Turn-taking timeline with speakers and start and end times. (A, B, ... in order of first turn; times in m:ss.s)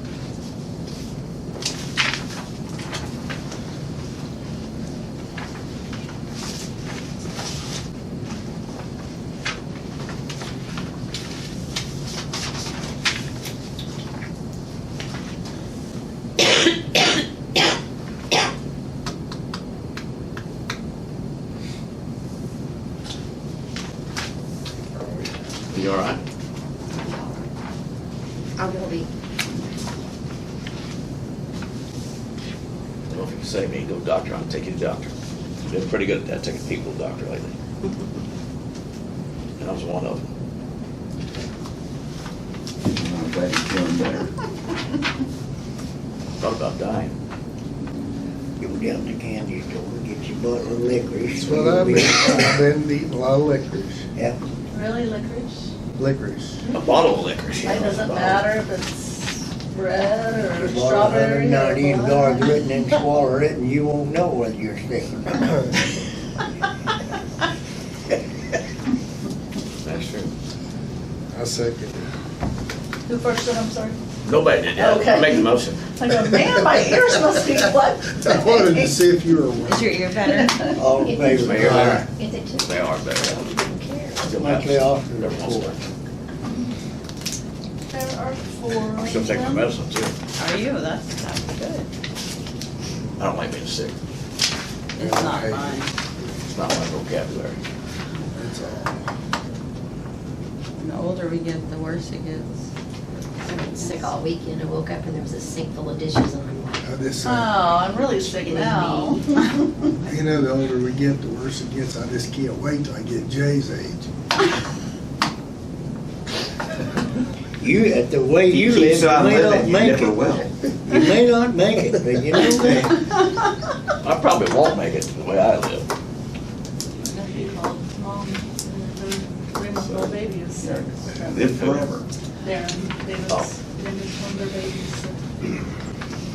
0:25.7-0:26.2 A
0:26.9-0:27.4 B
0:28.6-0:29.1 B
0:33.1-0:35.1 A
0:35.6-0:37.6 A
0:39.6-0:40.3 A
0:42.8-0:44.3 C
0:46.4-0:47.1 A
0:48.6-0:52.6 D
0:51.4-0:54.0 E
0:54.7-0:55.7 F
0:56.0-0:56.6 E
0:56.7-0:58.5 A
0:57.6-1:02.6 F
1:00.5-1:05.7 D
1:09.8-1:10.3 A
1:11.3-1:12.1 E
1:13.1-1:14.0 F
1:14.2-1:15.8 A
1:14.8-1:19.0 F
1:18.2-1:20.0 E
1:19.6-1:20.8 G
1:20.7-1:22.0 D
1:20.9-1:24.4 B
1:21.3-1:22.0 A
1:22.6-1:23.4 A
1:24.2-1:25.8 D
1:24.2-1:25.8 A
1:27.9-1:29.7 F
1:29.0-1:30.2 A
1:30.4-1:31.9 G
1:33.2-1:34.0 A
1:35.0-1:35.9 G
1:35.0-1:36.4 E
1:36.5-1:37.6 A
1:38.3-1:39.0 E
1:40.8-1:42.5 G
1:43.4-1:44.1 G
1:43.5-1:46.8 B
1:46.8-1:47.7 E
1:47.2-1:49.5 F
1:48.1-1:49.2 B
1:50.0-1:54.1 E
1:57.6-2:03.0 D
1:58.5-2:00.5 C
2:04.0-2:05.8 A
2:07.0-2:10.8 F
2:09.8-2:10.1 A
2:11.1-2:12.0 C
2:11.2-2:12.0 A
2:12.4-2:15.2 F